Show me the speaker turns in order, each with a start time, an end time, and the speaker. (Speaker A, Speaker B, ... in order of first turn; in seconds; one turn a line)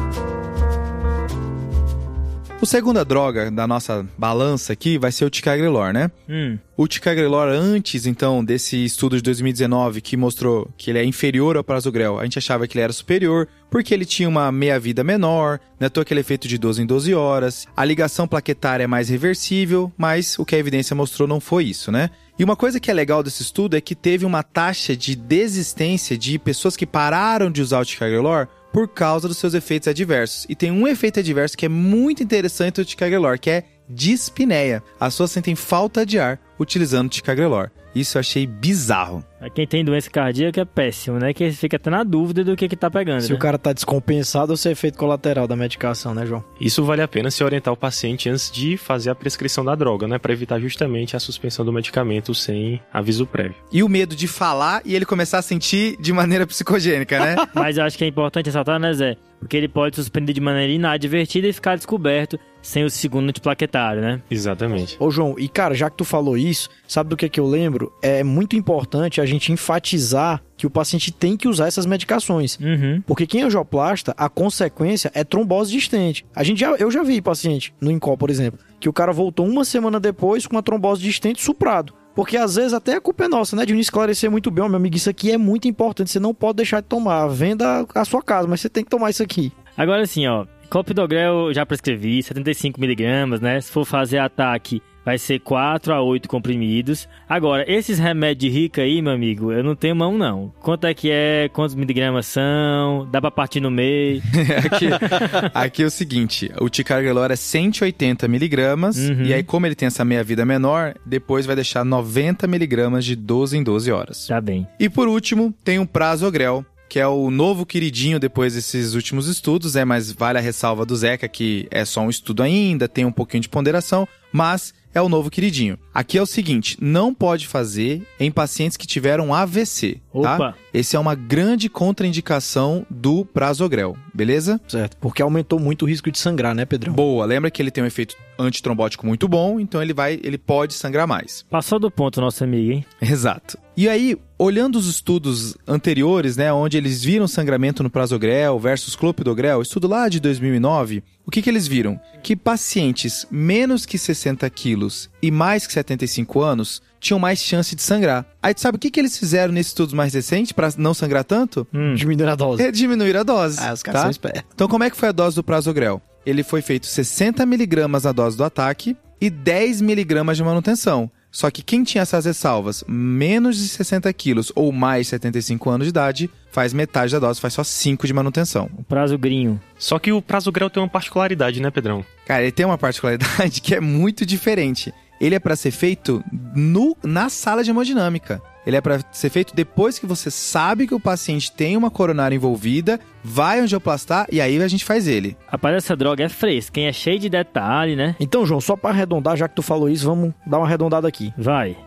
Speaker A: 2.6-6.1
Speaker B: 6.3-6.6
Speaker A: 6.8-39.2
Speaker B: 39.4-43.5
Speaker C: 43.2-46.5
Speaker D: 46.6-53.6
Speaker A: 53.7-57.5
Speaker B: 57.5-64.2
Speaker D: 64.3-65.0
Speaker C: 65.0-89.5
Speaker B: 72.6-73.0
Speaker B: 89.8-104.3
Speaker A: 104.3-134.6
Speaker B: 105.0-105.4
Speaker B: 109.0-109.5
Speaker B: 114.3-114.7
Speaker B: 130.1-130.6
Speaker C: 134.7-137.0
Speaker A: 136.9-141.4
Speaker B: 141.5-142.9
Speaker A: 143.0-161.7
Speaker B: 161.7-162.0
Speaker C: 161.9-162.7
Speaker A: 162.6-178.7
Speaker C: 163.6-164.5
Speaker B: 178.8-179.6
Speaker D: 179.8-182.1
Speaker A: 182.3-195.4
Speaker B: 195.5-198.2
Speaker C: 198.2-201.3
Speaker B: 201.4-201.8